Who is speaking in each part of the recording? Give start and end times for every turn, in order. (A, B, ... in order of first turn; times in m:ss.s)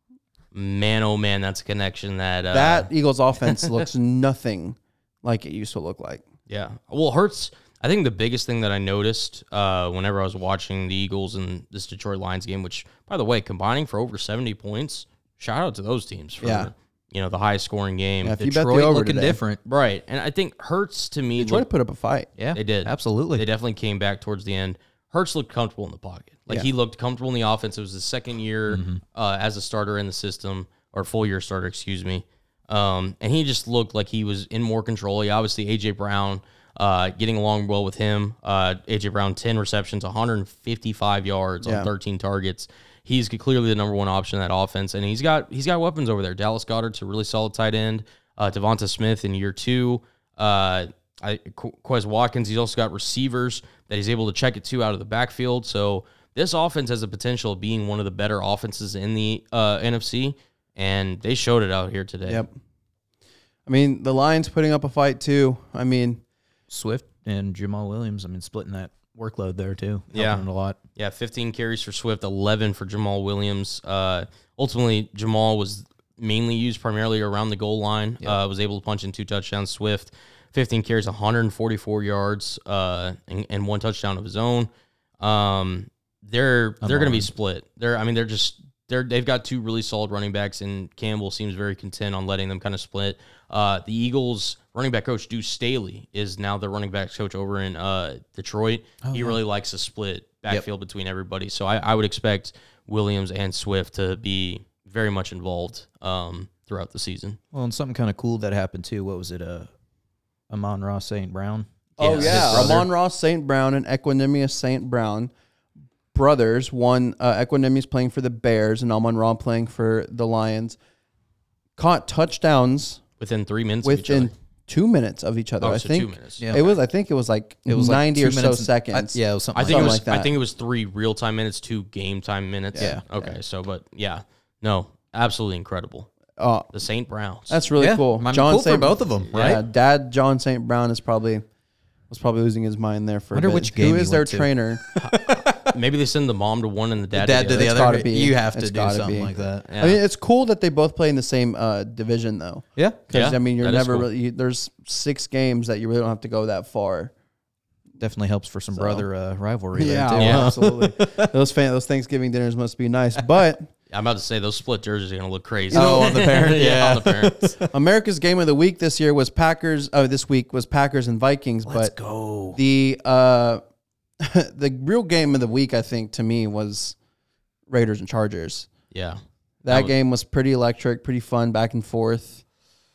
0:00.5-0:02.9 A
0:02.5-0:06.2 B
0:06.5-0:18.4 A
0:16.4-0:16.7 B
0:18.2-0:19.4 B
0:18.4-0:19.6 C
0:19.6-0:21.6 A
0:21.4-0:22.3 B
0:22.4-0:23.4 C
0:22.5-1:02.4 A
0:28.7-0:29.0 C
0:41.6-0:41.9 B
1:02.3-1:02.5 B
1:03.6-1:06.2 B
1:06.7-1:10.8 C
1:10.1-1:24.7 A
1:25.2-1:47.4 A
1:26.8-1:27.3 C
1:39.0-1:39.4 C
1:47.5-1:49.7 C
1:50.5-1:52.9 C
1:52.0-1:52.8 A
1:52.0-1:55.3 B
1:56.1-2:00.8 B
2:01.8-2:03.0 B
2:03.2-2:04.3 A
2:03.8-2:10.3 B
2:05.6-2:06.8 A
2:07.7-2:10.0 C
2:09.5-2:16.1 A
2:12.7-2:13.3 B
2:16.4-2:16.7 B
2:16.7-2:17.6 A
2:17.5-2:21.4 B
2:17.8-2:19.6 C
2:19.3-2:19.6 A
2:22.1-2:24.8 B
2:23.3-2:25.7 C
2:25.0-2:27.8 A
2:27.1-2:29.6 C
2:27.5-2:37.1 B
2:29.7-2:30.0 A
2:33.1-2:34.1 A
2:38.0-2:41.3 C
2:38.7-2:39.0 B
2:39.7-2:43.7 B
2:40.2-2:40.5 A
2:43.9-2:47.5 A
2:45.7-2:46.6 B
2:45.7-2:47.7 C
2:47.7-2:51.9 B
2:51.6-2:52.6 C
2:52.5-2:53.6 B
2:54.2-2:57.0 B
2:57.7-2:58.7 B
2:58.9-2:59.9 A
2:59.6-3:02.4 B